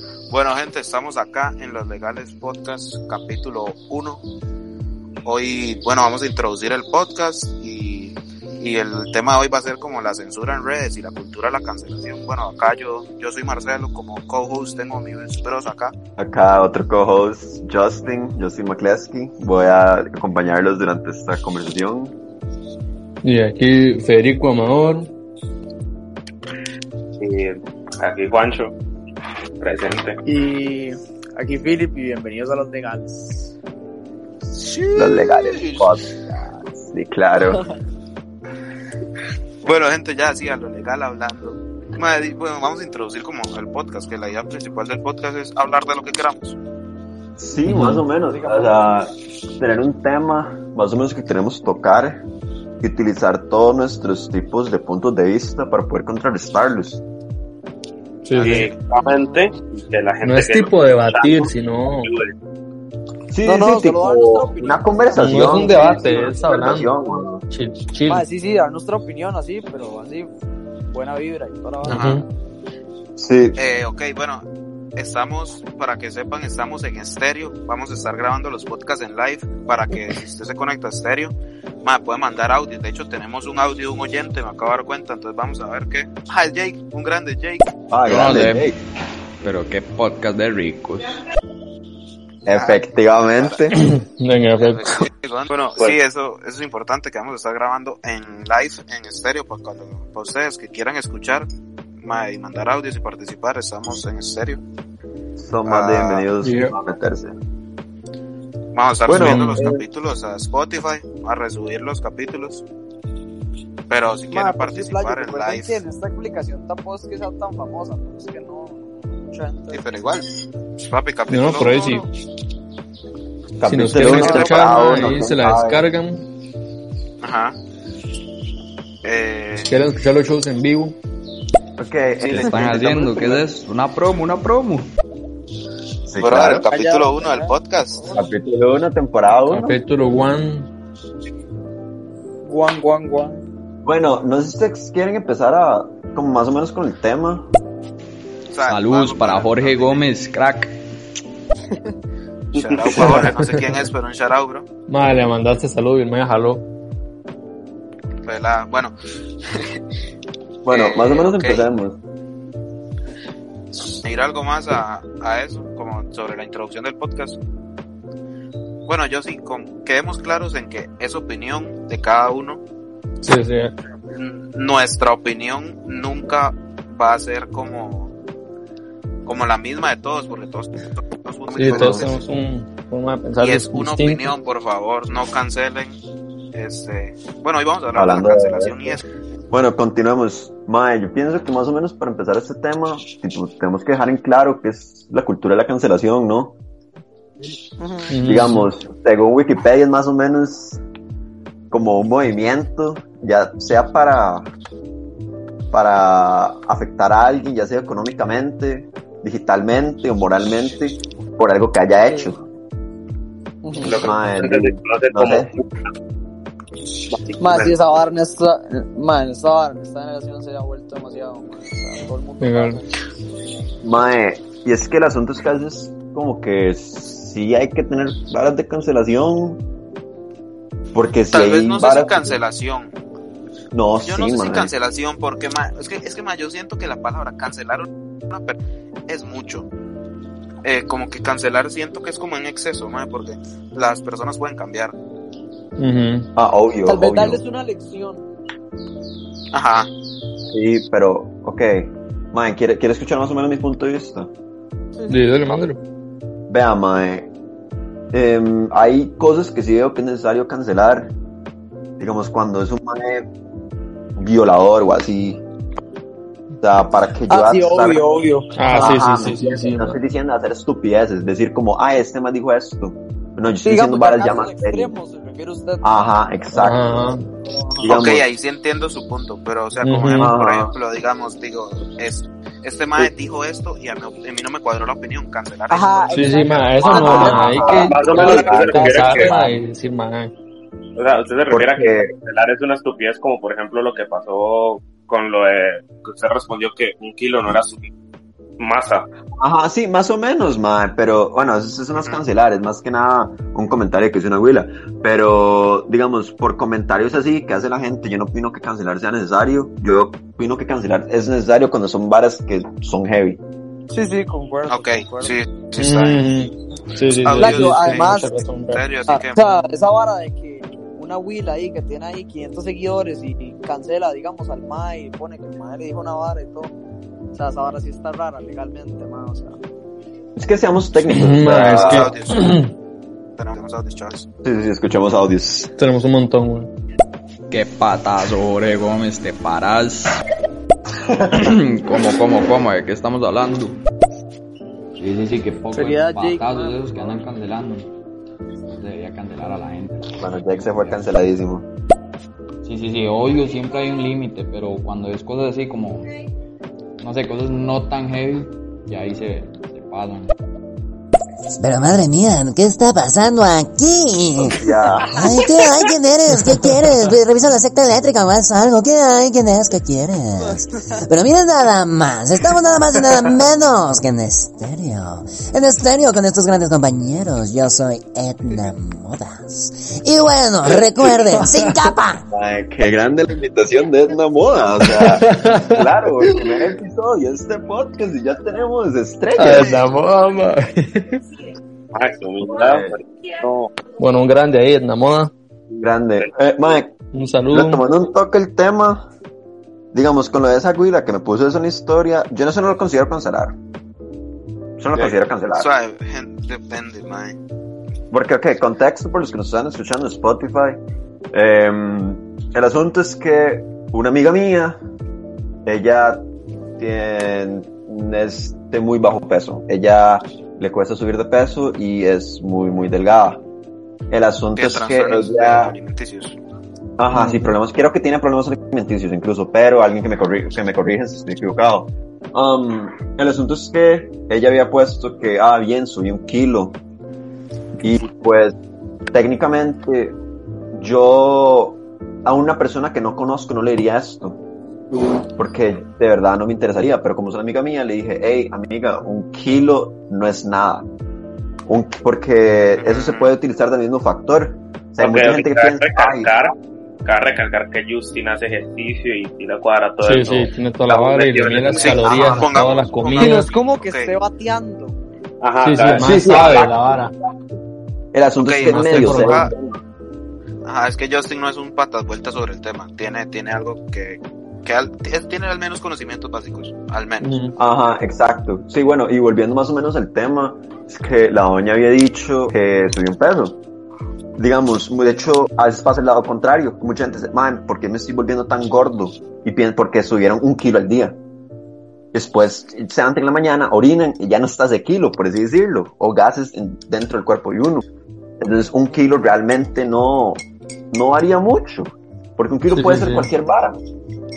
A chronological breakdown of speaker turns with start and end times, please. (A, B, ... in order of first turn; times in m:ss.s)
0:00.3-0:04.2 A
0:05.2-0:15.9 A
0:16.2-0:22.1 B
0:23.2-0:25.1 C
0:27.2-0:28.7 D
0:29.6-0:30.2 D
0:30.2-0:33.5 E
0:34.5-0:35.9 A
0:34.9-0:37.6 B
0:39.6-0:46.6 A
0:47.4-0:52.2 B
0:47.6-0:48.0 C
0:48.3-0:49.0 E
0:52.8-0:57.0 B
0:58.2-0:58.7 C
0:58.3-1:02.3 D
1:00.2-1:02.1 C
1:03.3-1:07.4 B
1:03.4-1:06.4 E
1:05.2-1:06.9 C
1:07.5-1:08.2 C
1:08.0-1:10.3 E
1:10.9-1:12.2 E
1:11.8-1:12.2 C
1:11.9-1:12.2 A
1:13.2-1:13.6 B
1:13.6-1:14.4 A
1:15.0-1:27.7 A
1:27.9-1:28.8 B
1:28.1-1:28.7 F
1:29.4-1:31.1 F
1:32.4-1:33.9 B
1:32.5-1:33.6 A
1:33.7-1:35.0 C
1:34.6-1:41.5 A
1:42.0-1:44.6 A
1:45.4-1:47.4 B
1:45.7-1:46.3 A
1:46.4-1:46.7 C
1:48.7-1:52.6 A
1:49.1-1:49.8 B
1:49.1-1:49.7 C
1:53.9-1:55.8 A
1:54.3-2:00.0 E
1:59.7-2:00.2 A
2:00.8-2:02.1 A
2:01.3-2:02.0 C
2:03.6-2:05.8 B
2:03.6-2:06.2 C
2:04.0-2:04.7 E
2:07.2-2:07.6 A
2:09.0-2:09.7 A
2:09.6-2:10.9 C
2:11.8-2:13.6 B
2:12.2-2:14.9 F
2:16.1-2:16.7 B
2:16.2-2:18.0 A
2:16.7-2:18.3 E
2:18.1-2:19.8 B
2:19.5-2:20.7 C
2:22.4-2:23.4 E
2:23.8-2:27.5 B
2:28.5-2:30.1 A
2:28.6-2:30.7 F
2:32.5-2:33.2 D
2:32.5-2:34.7 A
2:33.0-2:33.7 C
2:34.9-2:36.6 C
2:38.2-2:39.8 A
2:40.6-2:42.0 B
2:40.7-2:41.7 A
2:43.9-2:47.4 A
2:48.8-2:52.6 A
2:53.2-2:53.7 C
2:54.1-2:58.1 A
2:59.2-3:02.2 A
3:01.5-3:04.3 C
3:01.6-3:02.0 B
3:03.4-3:06.0 A
3:06.5-3:09.0 A
3:07.9-3:08.9 B
3:09.5-3:16.5 B
3:17.8-3:18.2 E
3:18.1-3:18.7 C
3:18.2-3:20.8 B
3:21.7-3:24.5 B
3:25.7-3:32.4 B
3:32.1-3:32.4 E
3:33.6-3:34.0 E
3:33.8-3:35.6 D
3:33.8-3:35.5 B
3:37.2-3:37.8 D
3:37.4-3:43.0 E
3:42.4-3:42.8 C
3:43.8-3:49.6 B
3:50.9-3:52.4 B
3:51.3-3:52.9 A
3:53.7-3:54.7 B
3:54.0-3:59.7 A
4:00.6-4:04.9 A
4:05.8-4:06.3 C
4:06.4-4:07.4 B
4:06.8-4:08.2 E
4:09.5-4:09.9 A
4:10.5-4:14.3 B
4:15.0-4:15.2 E
4:15.1-4:15.8 C
4:16.5-4:17.3 B
4:18.1-4:21.1 B
4:22.0-4:23.3 B
4:24.2-4:25.4 B
4:26.6-4:28.1 B
4:27.3-4:29.1 E
4:28.6-4:30.0 C
4:28.7-4:34.9 B
4:33.6-4:35.9 E
4:35.8-4:37.0 B
4:36.5-4:37.3 C
4:37.4-4:38.0 E
4:37.8-4:38.3 B
4:37.8-4:46.4 A
4:39.8-4:40.4 C
4:40.2-4:40.7 B
4:45.7-4:49.5 E
4:46.1-4:50.3 C
4:46.8-4:49.5 B
4:47.6-4:49.4 D
4:51.0-4:57.9 D
4:51.5-4:52.1 B
4:58.6-4:59.0 D
4:59.4-5:13.4 B
5:13.9-5:15.4 E
5:14.7-5:16.3 A
5:15.8-5:18.8 C
5:17.0-5:19.5 A
5:17.4-5:18.4 E
5:19.1-5:26.7 E
5:27.3-5:29.6 E
5:30.4-5:32.1 B
5:31.1-5:32.7 C
5:31.5-5:32.6 A
5:33.4-5:34.2 A
5:34.4-5:35.7 B
5:35.8-5:36.7 C
5:37.5-5:40.2 F
5:41.1-5:41.6 B
5:41.3-5:43.8 F
5:45.0-5:47.9 F
5:45.7-5:46.8 E
5:48.8-5:50.1 F
5:50.2-5:51.7 B
5:52.6-5:56.1 F
5:57.0-6:00.3 F
6:01.6-6:22.2 G
6:04.5-6:05.2 B
6:10.4-6:11.0 E
6:21.3-6:21.7 C
6:22.3-6:29.8 B
6:24.8-6:26.4 C
6:29.4-6:31.2 C
6:29.4-6:29.9 A
6:31.9-6:33.7 D
6:32.4-6:33.0 B
6:34.0-6:35.3 C
6:35.7-6:36.9 B
6:37.1-6:37.8 C
6:37.5-6:39.1 B
6:39.9-6:43.6 B
6:44.8-6:45.7 B
6:45.5-6:47.4 A
6:48.1-6:50.8 B
6:51.3-6:54.8 B
6:55.6-6:56.2 B
6:56.8-7:03.4 B
7:04.1-7:05.7 B
7:04.6-7:06.4 A
7:07.0-7:16.8 B
7:07.1-7:07.5 C
7:17.8-7:18.5 B
7:19.1-7:20.2 B
7:20.7-7:24.4 B
7:25.2-7:30.9 B
7:31.7-7:36.5 B
7:32.7-7:33.3 A
7:35.0-7:42.4 D
7:40.0-7:43.5 C
7:41.7-7:44.1 A
7:43.2-7:45.0 E
7:45.4-7:47.0 D
7:45.6-7:47.1 C
7:45.9-7:47.6 B
7:48.1-7:49.8 B
7:48.4-7:49.5 A
7:48.6-7:49.5 C
7:50.6-7:57.4 A
7:57.2-7:57.5 C
7:57.6-8:03.6 B
8:04.4-8:11.2 B
8:12.1-8:17.8 B
8:18.4-8:20.4 B
8:20.9-8:23.8 B
8:22.7-8:23.3 C